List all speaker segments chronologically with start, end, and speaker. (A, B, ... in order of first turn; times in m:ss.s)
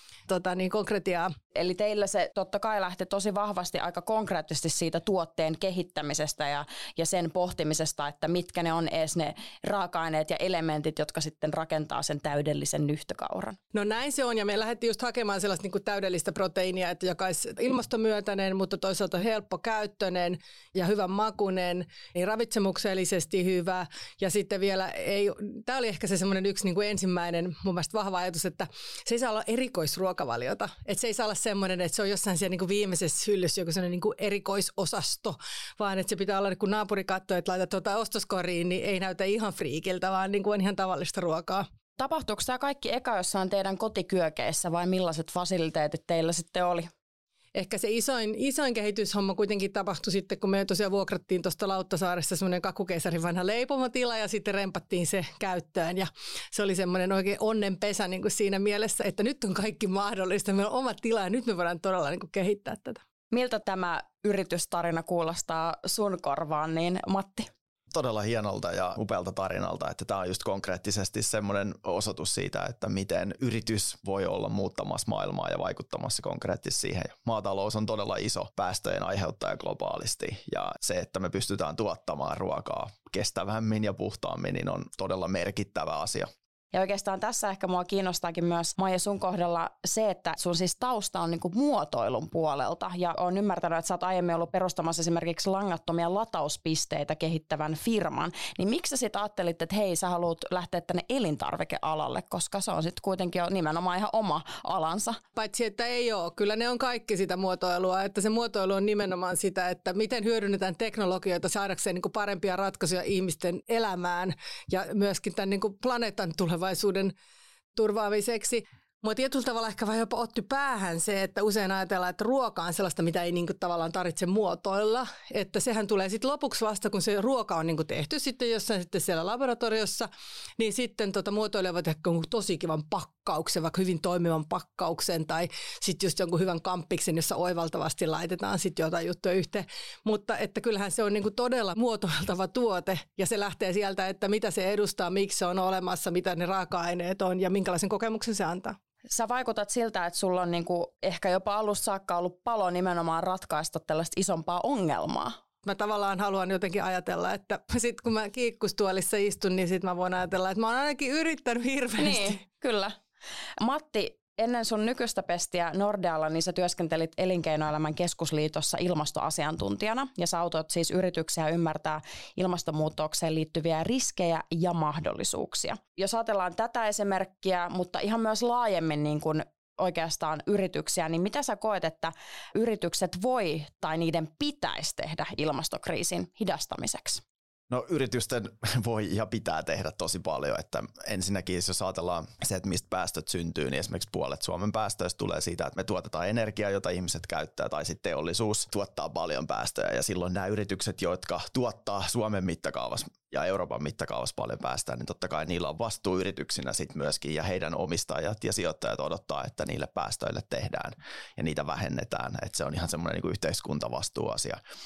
0:00.3-0:01.3 A
0:01.5-0:13.6 B
0:13.7-0:41.6 A
0:42.0-0:46.9 B
0:47.5-1:03.0 A
1:03.3-1:07.5 B
1:07.9-1:26.3 C
1:26.7-1:45.2 B
1:45.4-1:57.1 A
1:57.7-2:28.8 A
2:29.1-2:35.4 B
2:35.6-2:42.4 A
2:42.0-2:43.0 B
2:43.6-3:07.2 B
3:07.7-3:34.6 C